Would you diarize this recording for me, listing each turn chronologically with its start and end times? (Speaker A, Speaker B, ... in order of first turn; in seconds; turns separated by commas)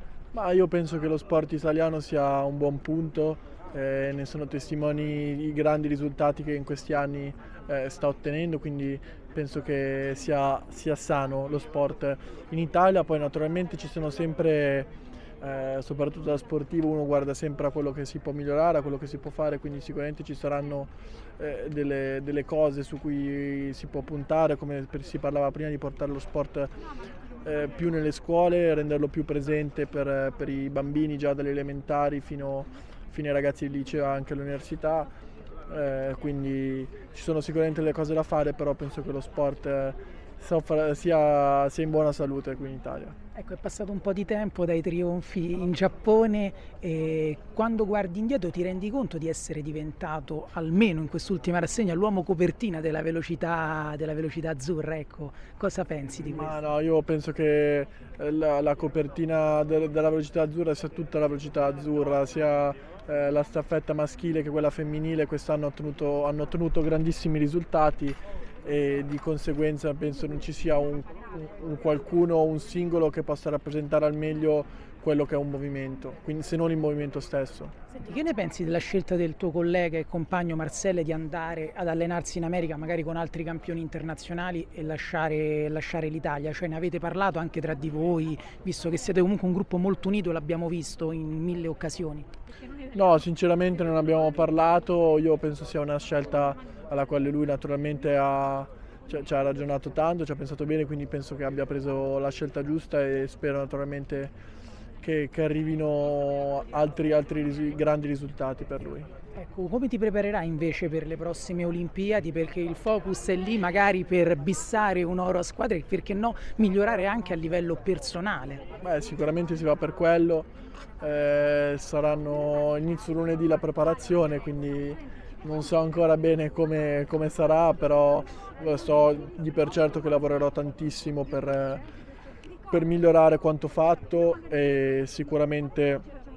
Speaker A: 0.3-14.9, Speaker A: 15.4-26.7, Speaker A: 27.4-35.1, Speaker A: 35.7-43.1, Speaker B: 43.3-56.6, Speaker A: 56.2-77.7, Speaker B: 77.9-92.3, Speaker A: 92.9-104.3, Speaker A: 105.0-109.1, Speaker B: 109.3-118.6, Speaker A: 118.8-131.8, Speaker A: 132.7-136.0